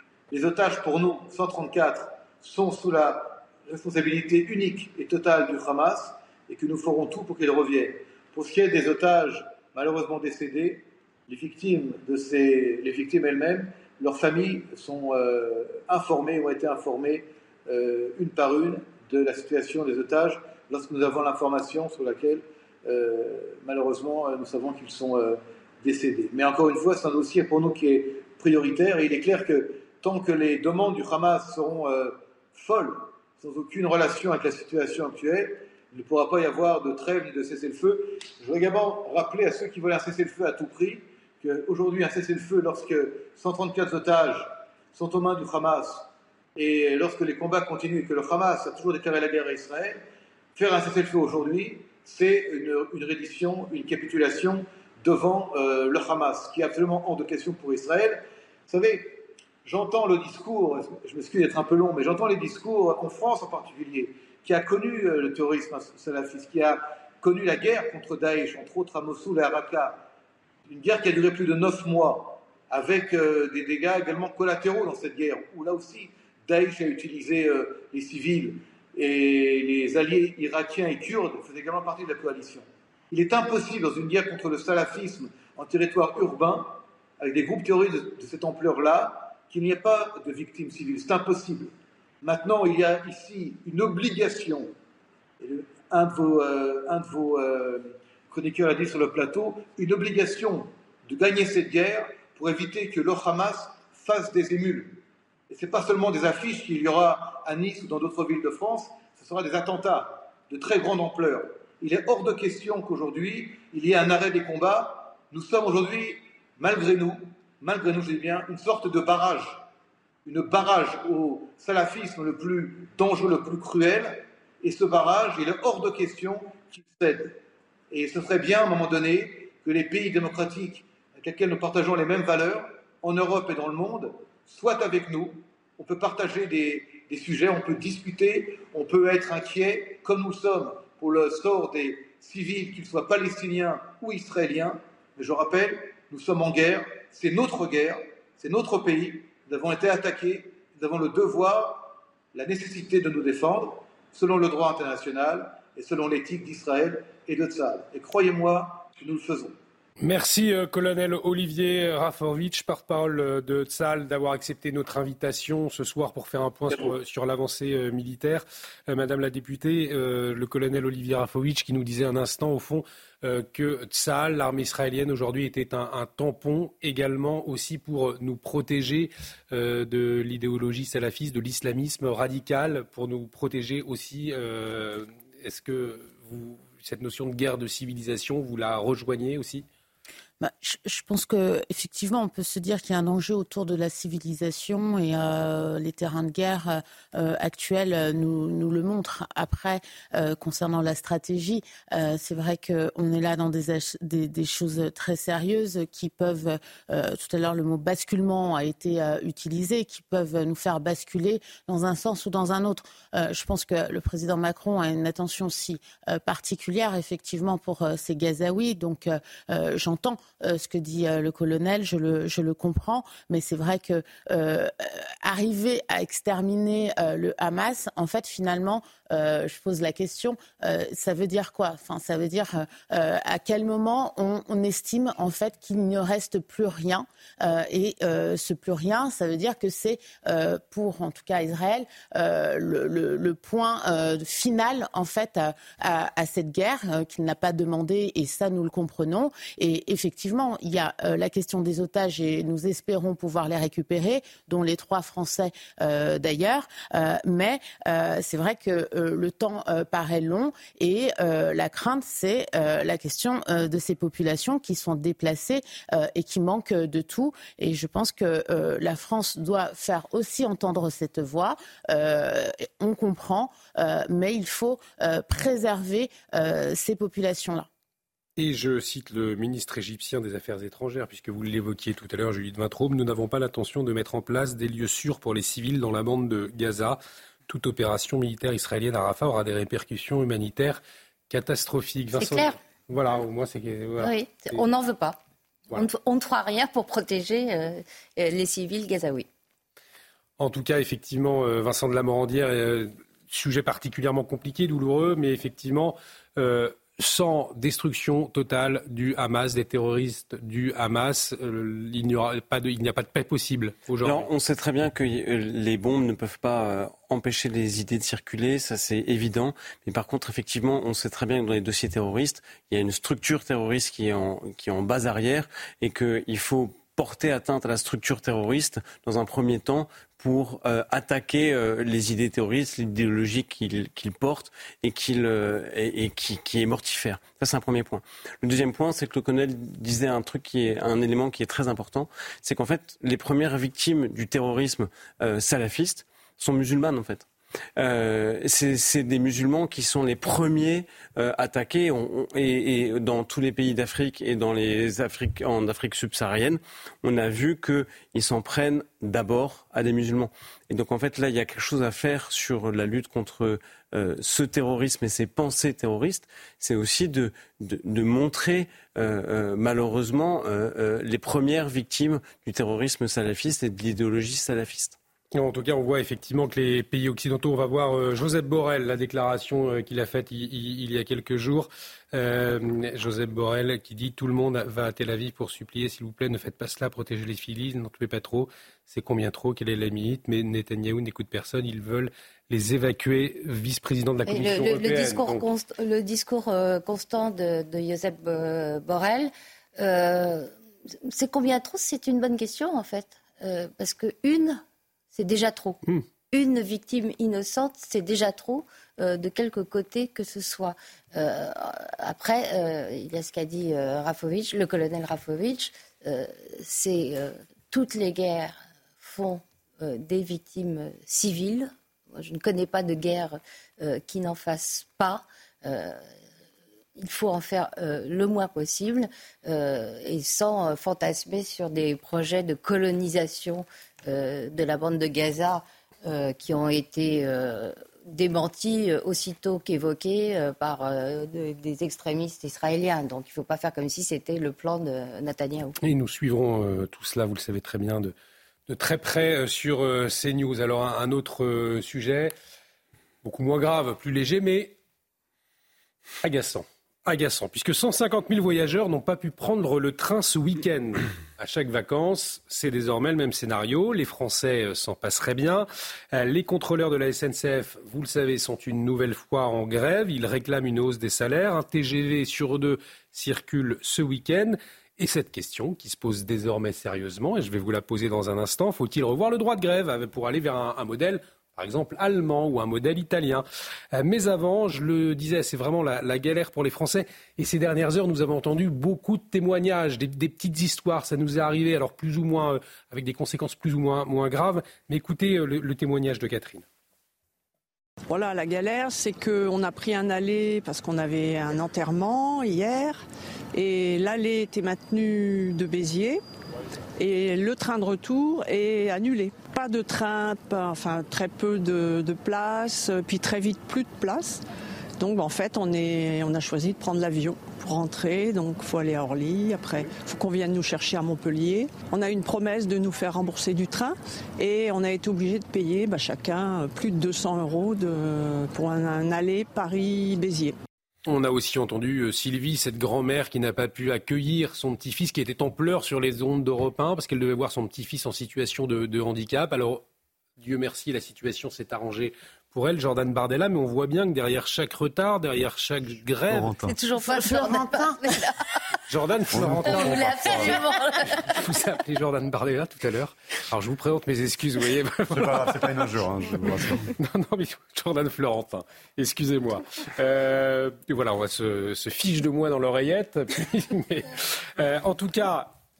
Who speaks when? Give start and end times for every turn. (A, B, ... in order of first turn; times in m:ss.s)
0:00.3-0:50.0 A
0:50.5-1:10.0 A
1:10.7-1:34.7 A
1:35.4-1:59.6 A
2:00.2-2:07.4 A
2:07.9-2:39.5 A
2:40.0-3:09.6 B
3:10.4-4:37.7 C
4:38.4-4:54.6 B
4:52.2-4:52.5 D
4:54.0-4:55.2 D
4:55.7-4:59.3 D
5:00.4-5:14.3 B
5:14.0-6:15.0 E
6:15.3-6:35.4 B
6:34.3-6:44.6 D
6:45.1-7:06.0 D
7:07.0-7:25.8 D
7:25.8-7:28.1 B
7:28.7-7:32.3 B
7:33.2-7:34.8 B
7:36.2-8:16.6 B
8:18.1-8:26.2 F
8:27.0-8:34.4 F
8:35.0-8:50.6 F
8:51.0-8:59.8 B
9:00.4-9:06.5 B
9:06.3-9:06.7 G
9:06.7-9:08.3 D
9:07.0-9:08.0 C
9:08.9-9:15.7 B
9:09.3-9:10.4 G
9:09.6-9:11.4 D
9:15.1-9:16.9 G
9:16.4-9:25.5 B